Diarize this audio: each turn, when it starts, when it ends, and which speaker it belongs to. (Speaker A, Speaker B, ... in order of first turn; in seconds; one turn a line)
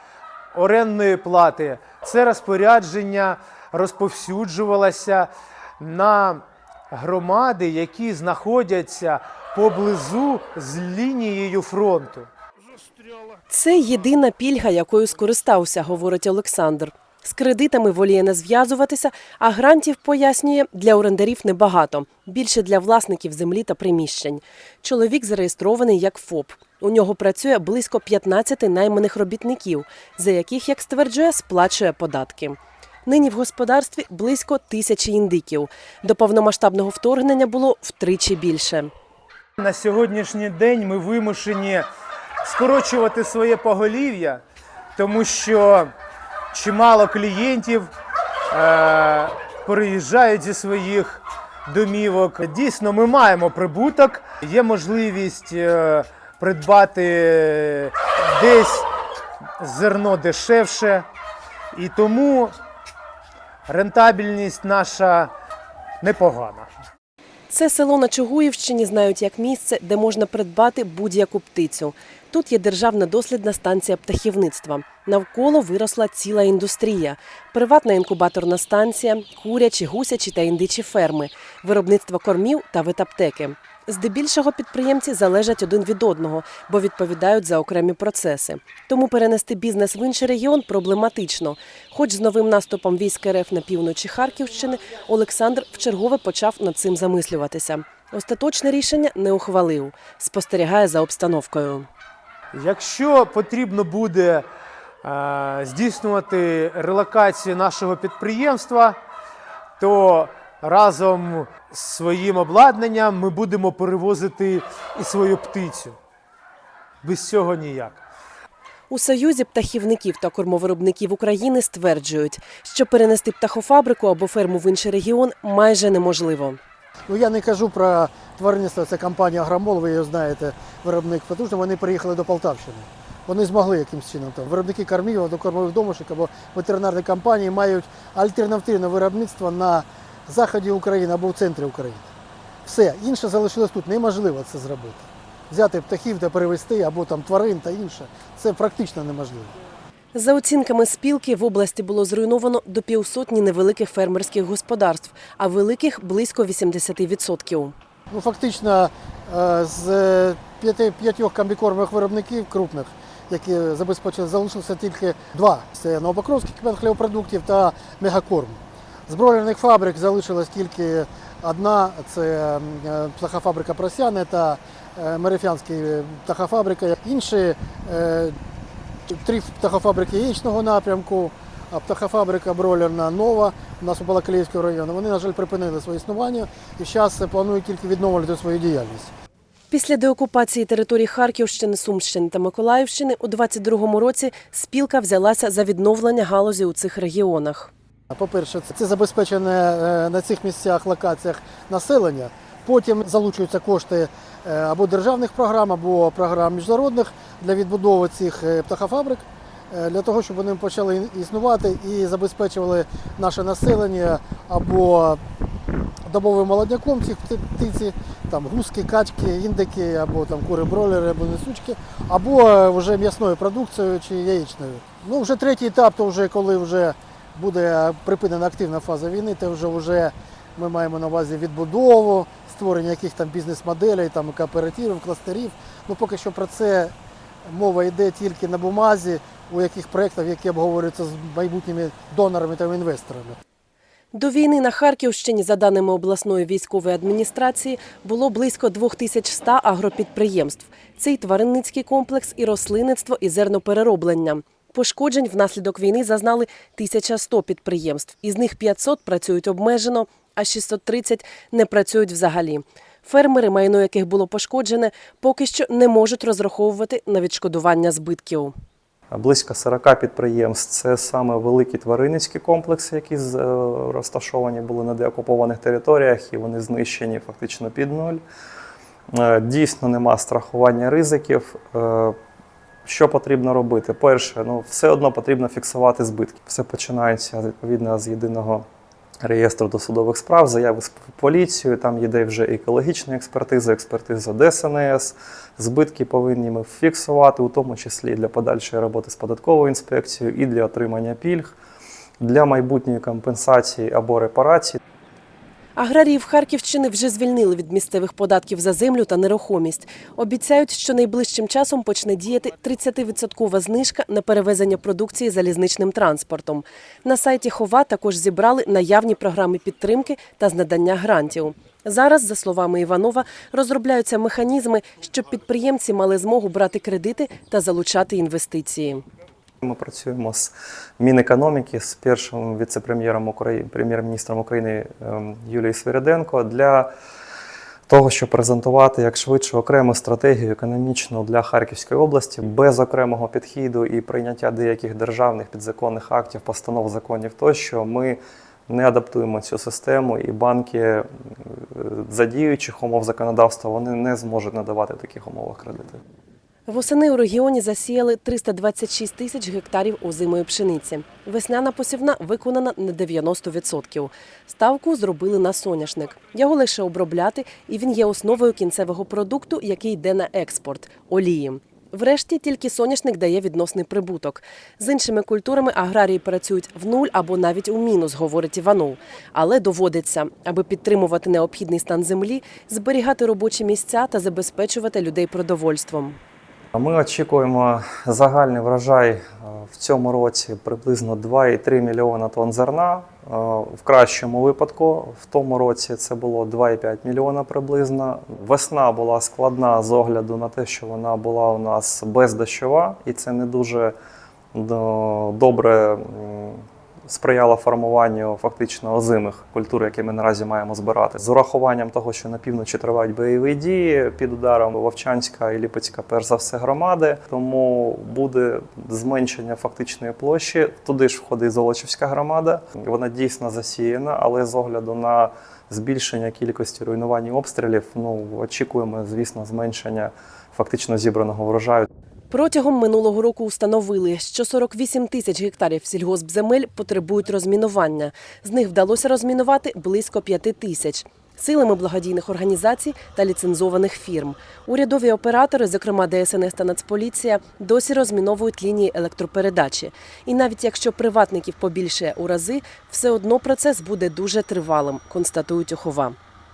Speaker A: 0.5-12.3
Speaker B: 13.5-38.9
Speaker A: 39.6-41.9
Speaker A: 42.4-44.4
Speaker A: 45.0-45.9
Speaker A: 46.5-47.9
Speaker A: 48.5-58.9
Speaker A: 59.6-61.1
Speaker A: 61.7-62.5
Speaker A: 63.6-65.3
Speaker A: 66.0-66.7
Speaker B: 67.5-101.9
Speaker A: 102.5-104.5
Speaker A: 105.0-109.0
Speaker A: 109.8-116.0
Speaker A: 117.0-118.0
Speaker B: 118.9-126.6
Speaker C: 127.1-142.1
Speaker C: 142.6-149.5
Speaker B: 150.1-157.7
Speaker C: 158.1-178.3
Speaker C: 179.1-189.1
Speaker B: 189.7-197.7
Speaker C: 198.1-215.2
Speaker C: 216.0-236.9
Speaker C: 237.4-243.4
Speaker B: 244.1-268.5
Speaker D: 269.1-278.2
Speaker D: 279.1-282.1
Speaker D: 282.8-288.6
Speaker D: 289.2-301.6
Speaker D: 302.2-304.8
Speaker B: 305.8-329.0
Speaker D: 329.6-336.9
Speaker D: 337.9-356.0
Speaker B: 356.7-386.2
Speaker D: 386.7-403.9
Speaker D: 404.5-431.9
Speaker B: 432.3-456.1